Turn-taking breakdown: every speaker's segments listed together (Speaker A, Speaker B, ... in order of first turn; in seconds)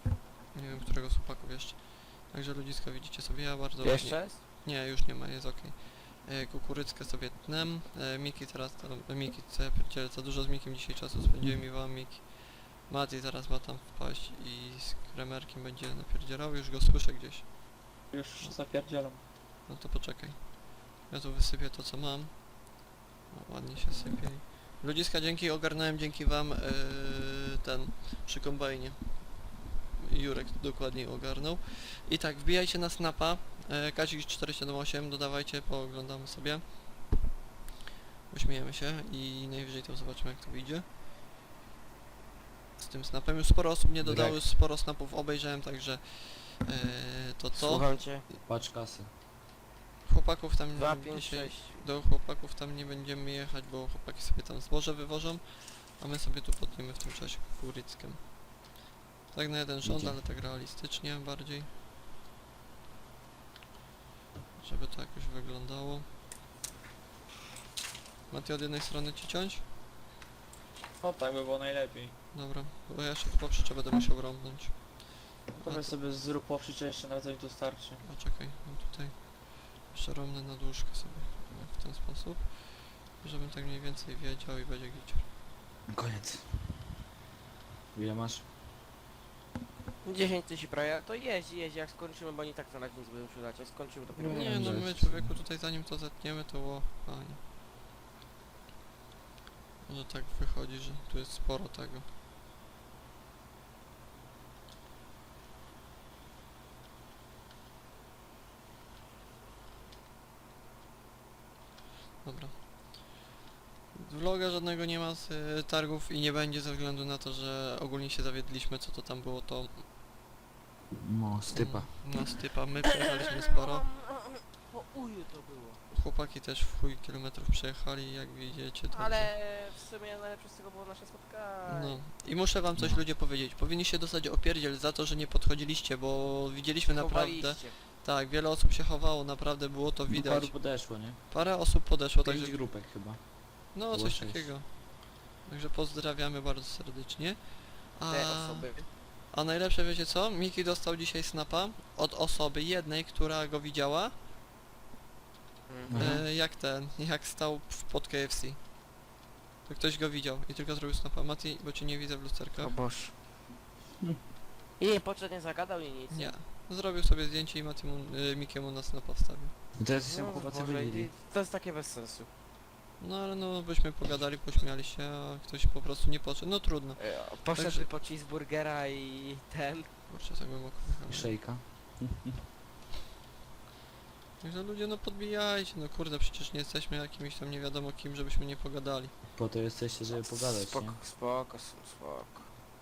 Speaker A: 0.5-17.5, 19.7-22.5, 23.3-36.8, 38.3-40.9, 42.8-47.9, 50.0-58.3, 59.3-61.7, 64.6-66.1, 68.3-69.6, 72.3-75.9, 78.0-85.2, 94.2-97.4, 99.8-102.1, 112.2-113.1, 113.9-119.8, 121.5-123.8, 125.9-129.3, 131.7-140.8, 141.3-142.7, 143.7-148.7, 149.3-154.1, 155.9-158.7, 159.6-162.7, 166.1-169.5, 173.0-177.9, 180.1-181.3, 184.4-189.1
Speaker B: 3.8-4.4, 47.5-48.2, 50.7-51.8, 90.0-94.5, 123.5-125.8, 128.9-132.0, 136.9-137.8, 148.1-148.9, 155.7-156.2, 162.6-163.1, 164.8-166.3, 170.0-172.3, 177.0-179.9, 190.1-192.5
Speaker C: 18.1-19.2, 71.0-72.2, 75.6-78.0, 94.2-94.7
Speaker D: 44.0-44.4, 48.4-49.1, 59.8-60.2, 85.9-86.8, 87.9-88.5, 94.3-95.4, 121.0-121.9, 132.7-133.0, 140.1-141.3, 142.2-144.5, 155.9-156.2, 169.8-171.1, 181.1-182.4, 189.3-191.0